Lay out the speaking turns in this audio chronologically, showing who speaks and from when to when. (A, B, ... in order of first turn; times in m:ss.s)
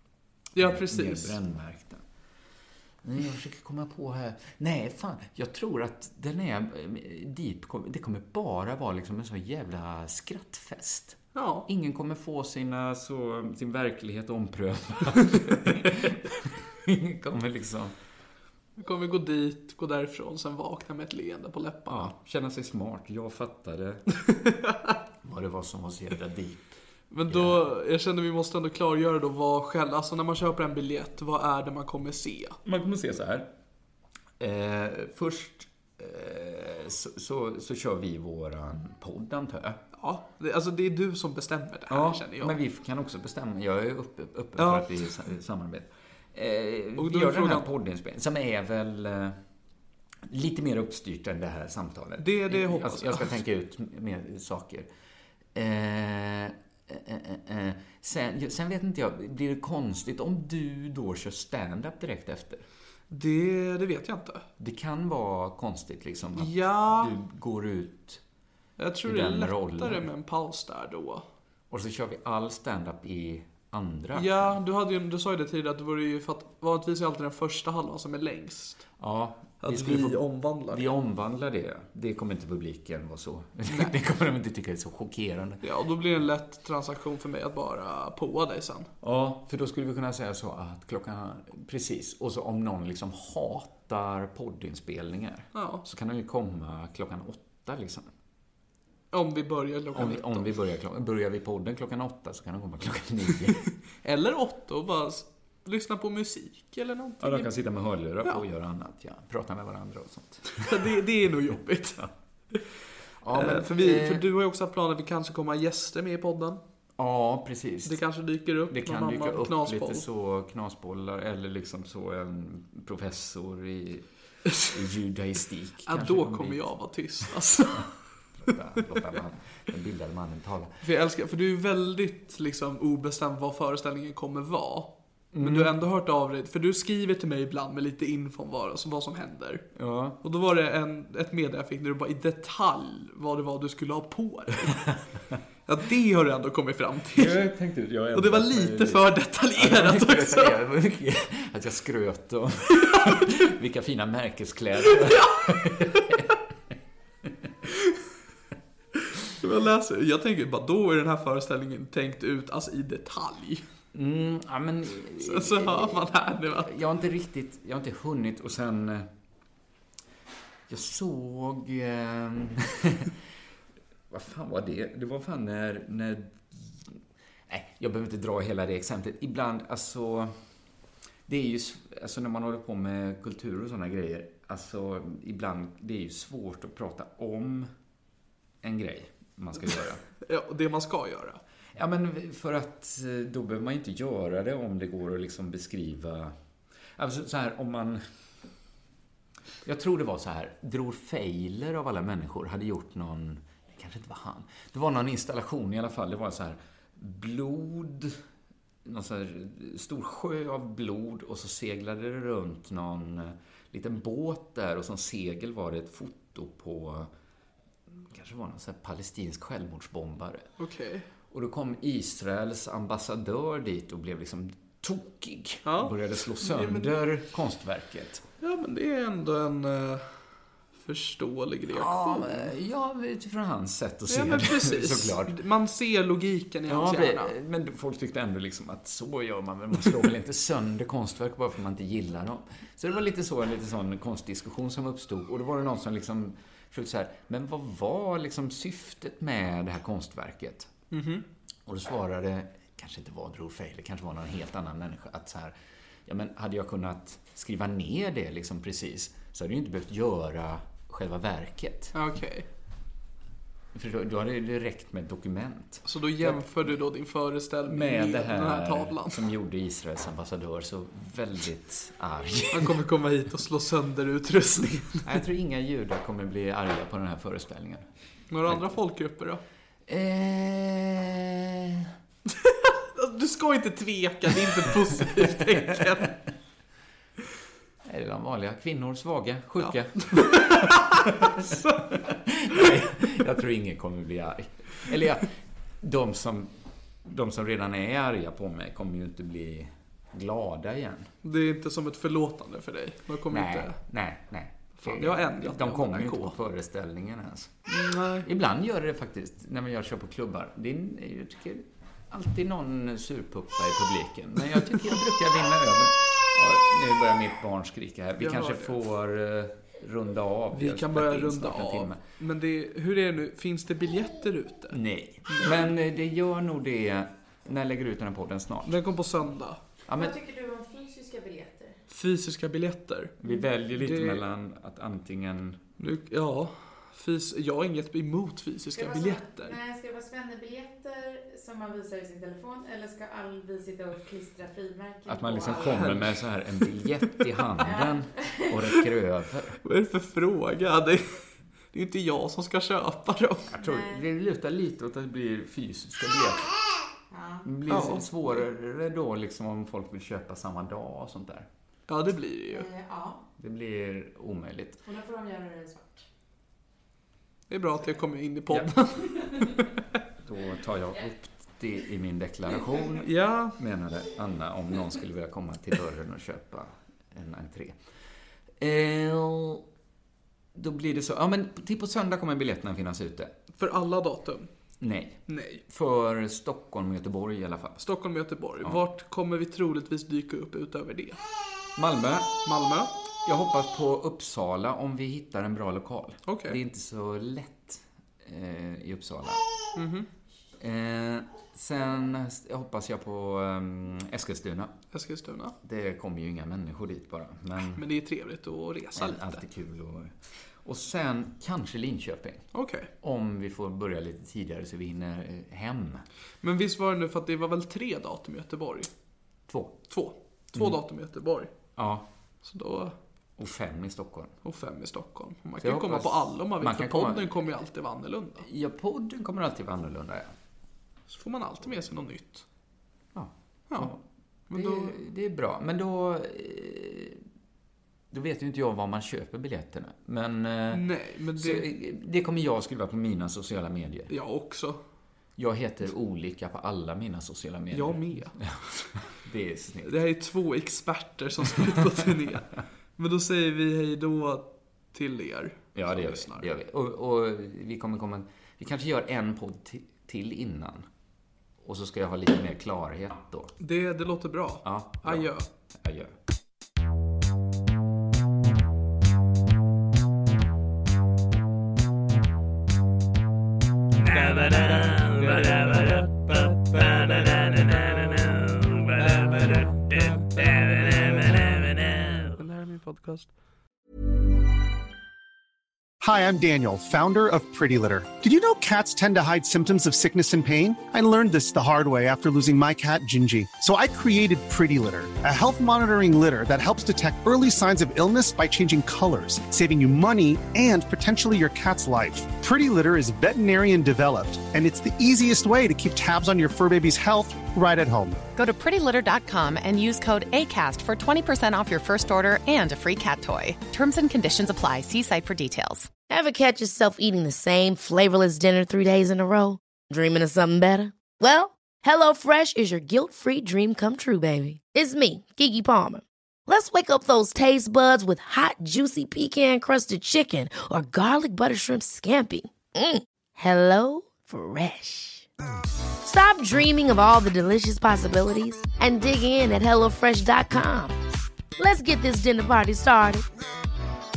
0:00.6-0:01.4 A
0:00.6-0:02.0 B
0:03.0-0:17.9 B
0:11.4-0:11.7 A
0:18.8-0:22.1 A
0:21.9-0:24.0 B
0:25.2-0:26.7 B
0:27.1-0:32.6 A
0:27.3-0:27.7 B
0:32.6-0:33.5 B
0:34.4-0:39.8 B
0:40.0-0:42.6 A
0:41.9-0:49.4 B
0:44.6-0:44.9 A
0:47.0-0:47.7 A
0:50.3-0:54.9 B
0:52.2-0:53.3 A
0:55.6-1:02.7 B
1:03.1-1:04.5 A
1:04.6-1:08.2 B
1:06.4-1:07.1 A
1:08.8-1:11.3 A
1:09.0-1:10.1 B
1:11.7-1:14.6 B
1:14.2-1:18.8 A
1:19.0-1:25.6 B
1:19.6-1:20.9 A
1:23.7-1:23.9 A
1:25.6-1:28.9 A
1:29.0-1:38.1 B
1:35.6-1:35.8 A
1:39.1-1:40.5 A
1:39.9-1:43.6 B
1:44.0-1:47.5 A
1:47.2-1:50.7 B
1:50.6-1:52.6 A
1:53.2-1:54.2 B
1:53.3-1:56.6 A
1:57.0-1:58.0 B
1:57.8-2:00.0 A
1:58.7-2:04.1 B
2:04.7-2:06.6 B
2:05.9-2:07.9 A
2:08.4-2:10.8 B
2:10.8-2:19.7 A
2:15.3-2:15.7 B
2:19.8-2:20.2 B
2:20.2-2:24.9 A
2:25.7-2:27.4 A
2:27.1-2:36.3 B
2:28.2-2:30.5 A
2:34.9-2:35.9 A
2:39.2-2:43.6 A
2:43.9-2:46.0 B
2:45.2-2:46.8 A
2:46.6-2:49.1 B
2:50.7-2:53.2 B
2:54.1-3:00.4 B
3:01.3-3:07.7 B
3:08.6-3:10.0 B
3:10.2-3:11.4 A
3:11.8-3:16.4 B
3:17.0-3:18.0 B
3:19.6-3:28.2 B
3:28.8-3:37.1 B
3:37.9-3:40.5 B
3:40.6-3:41.1 A
3:41.3-3:48.2 B
3:45.7-3:47.0 A
3:48.4-3:50.3 A
3:50.8-3:52.5 A
3:51.7-3:55.4 B
3:54.1-3:57.3 A
3:56.7-4:10.7 B
4:10.9-4:11.2 A
4:11.7-4:15.6 B
4:16.1-4:22.0 B
4:21.9-4:22.5 A
4:23.7-4:26.7 B
4:25.9-4:29.3 A
4:27.7-4:32.8 B
4:32.5-4:35.2 A
4:35.0-4:37.9 B
4:38.3-4:39.4 A
4:39.9-4:41.9 B
4:42.3-4:46.2 A
4:47.8-4:55.3 B
4:49.6-4:51.9 A
4:55.8-4:56.5 B
4:57.0-5:01.1 B
5:01.2-5:03.8 A
5:03.3-5:07.7 B
5:04.8-5:06.4 A
5:07.7-5:08.3 A
5:08.2-5:22.0 B
5:18.2-5:18.8 A
5:20.5-5:25.6 A
5:24.7-5:28.8 B
5:28.6-5:29.6 A
5:29.9-5:30.2 B
5:29.9-5:31.8 C
5:31.9-5:34.2 A
5:33.2-5:35.6 B
5:35.8-5:39.6 A
5:38.8-5:45.9 C
5:45.1-5:49.6 B
5:45.5-5:46.7 A
5:47.6-5:48.6 C
5:49.6-5:53.5 A
5:53.5-5:56.5 B
5:53.6-5:54.0 C
5:57.1-5:57.5 C
5:57.4-6:01.5 B
5:57.7-5:58.4 A
6:01.9-6:02.7 A
6:02.5-6:03.2 C
6:03.4-6:04.8 B
6:04.8-6:06.0 C
6:07.5-6:09.9 A
6:10.2-6:17.8 B
6:13.0-6:13.6 A
6:18.6-6:19.7 B
6:20.6-6:23.4 B
6:23.5-6:24.5 A
6:24.8-6:27.9 B
6:25.3-6:25.6 A
6:27.8-6:31.2 A
6:31.8-6:32.3 B
6:32.4-6:32.9 A
6:33.2-6:39.4 B
6:36.3-6:36.6 A
6:39.8-6:40.1 A
6:40.6-6:44.8 B
6:44.9-6:45.6 A
6:45.6-6:47.8 B
6:47.8-6:49.4 A
6:49.0-6:52.5 B
6:52.5-6:52.9 A
6:53.0-6:56.0 B
6:56.4-6:58.9 A
6:59.5-6:59.8 B
6:59.9-7:01.5 A
7:01.8-7:02.1 B
7:02.4-7:03.0 A
7:03.4-7:04.3 B
7:04.4-7:08.5 A
7:05.6-7:07.4 B
7:08.4-7:10.3 B
7:11.1-7:12.5 A
7:13.1-7:17.2 B
7:14.5-7:15.0 A
7:18.1-7:24.1 B
7:20.7-7:21.7 A
7:24.1-7:24.8 A
7:25.4-7:28.6 B
7:27.7-7:29.0 A
7:29.2-7:30.0 B
7:29.8-7:36.5 A
7:35.8-7:40.9 B
7:41.6-7:43.6 B
7:43.6-7:45.5 A
7:44.6-7:46.2 B
7:54.0-8:03.3 D
8:06.0-8:28.2 E
8:28.4-8:35.9 F
8:36.1-8:55.3 G
8:56.0-9:01.0 G
9:01.6-9:03.2 G